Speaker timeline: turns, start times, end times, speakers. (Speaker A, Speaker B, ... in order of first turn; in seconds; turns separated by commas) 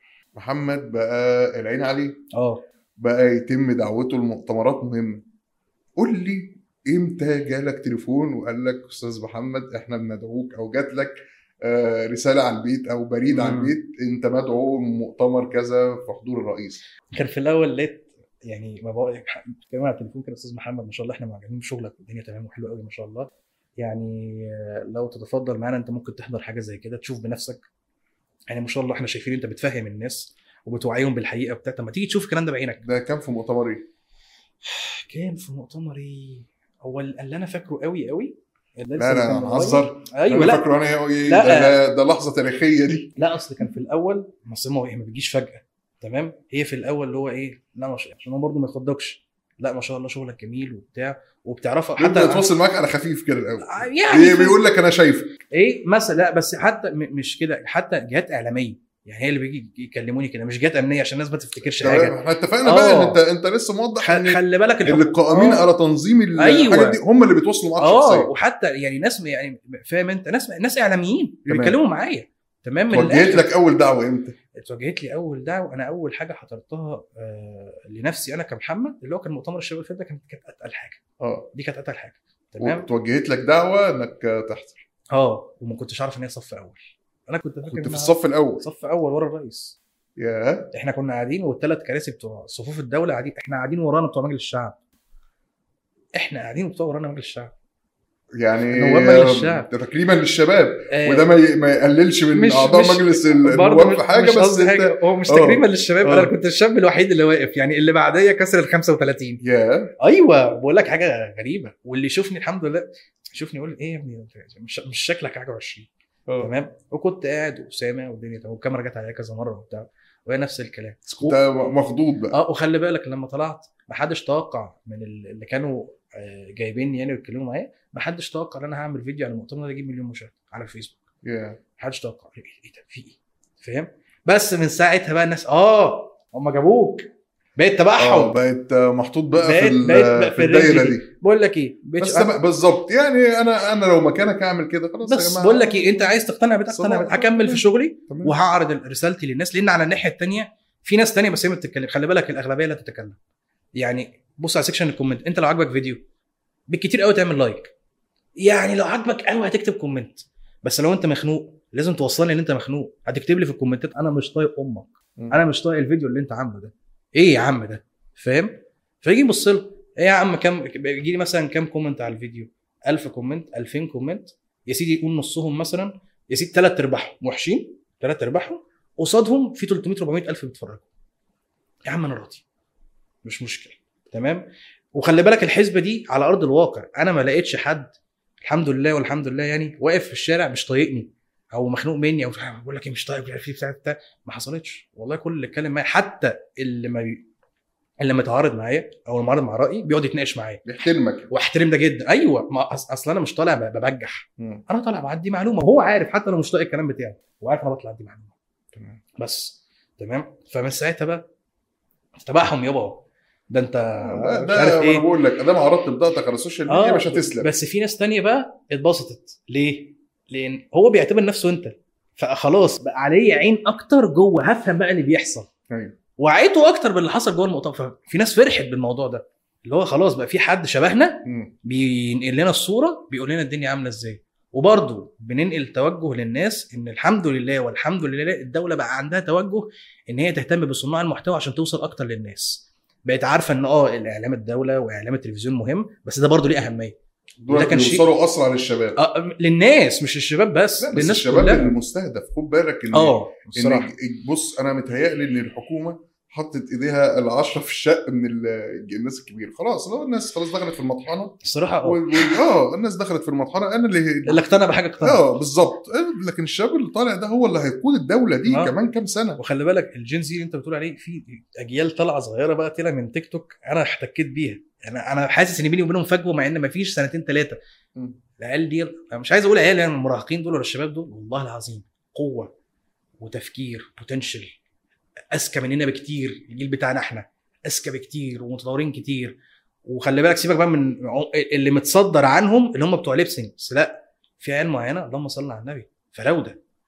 Speaker A: 0.3-2.2, Speaker B: 2.3-2.6, Speaker A: 3.0-5.2, Speaker A: 6.0-16.8, Speaker B: 13.3-13.7, Speaker B: 17.1-27.6, Speaker B: 28.5-32.8, Speaker A: 32.8-33.8, Speaker B: 34.6-40.7, Speaker A: 39.0-43.1, Speaker B: 41.3-41.7, Speaker B: 43.1-52.5, Speaker A: 52.0-55.3, Speaker B: 53.6-54.6, Speaker B: 55.5-63.2, Speaker A: 61.8-68.3, Speaker B: 64.0-65.7, Speaker B: 66.4-67.0, Speaker B: 67.8-73.5, Speaker A: 71.5-71.8, Speaker A: 72.9-74.3, Speaker B: 74.6-81.0, Speaker A: 81.2-81.5, Speaker B: 81.5-82.9, Speaker A: 82.6-84.8, Speaker B: 85.1-89.8, Speaker A: 87.7-88.6, Speaker A: 90.2-90.7, Speaker B: 90.7-94.8, Speaker B: 96.2-97.5, Speaker A: 98.4-106.3, Speaker B: 98.7-99.7, Speaker B: 100.9-101.3, Speaker B: 102.3-109.4, Speaker A: 109.4-109.9, Speaker B: 110.0-115.9, Speaker A: 116.3-116.5, Speaker B: 116.4-121.3, Speaker A: 121.1-122.3, Speaker B: 122.3-130.9, Speaker A: 131.2-131.6, Speaker B: 131.8-138.3, Speaker A: 138.0-141.0, Speaker B: 139.4-142.3, Speaker A: 142.0-146.1, Speaker B: 145.0-153.2, Speaker A: 146.7-148.3, Speaker B: 153.8-156.0, Speaker B: 156.7-157.7, Speaker B: 158.4-180.8, Speaker B: 181.8-182.4, Speaker B: 183.2-197.2, Speaker B: 198.0-200.6, Speaker A: 200.6-201.3, Speaker B: 201.3-208.3, Speaker A: 204.4-204.6, Speaker A: 208.7-209.0, Speaker B: 209.2-211.2, Speaker B: 212.2-215.1, Speaker A: 213.9-217.5, Speaker B: 216.7-225.5, Speaker B: 226.2-246.9, Speaker A: 231.2-231.5, Speaker A: 247.4-249.0, Speaker B: 247.5-248.1, Speaker B: 248.9-251.7, Speaker A: 250.8-264.4, Speaker B: 252.9-253.9, Speaker B: 261.4-262.4, Speaker B: 264.2-265.2, Speaker A: 265.0-269.4, Speaker B: 268.5-268.7, Speaker B: 269.4-277.6, Speaker B: 278.4-282.5, Speaker B: 283.2-284.6, Speaker B: 285.3-296.6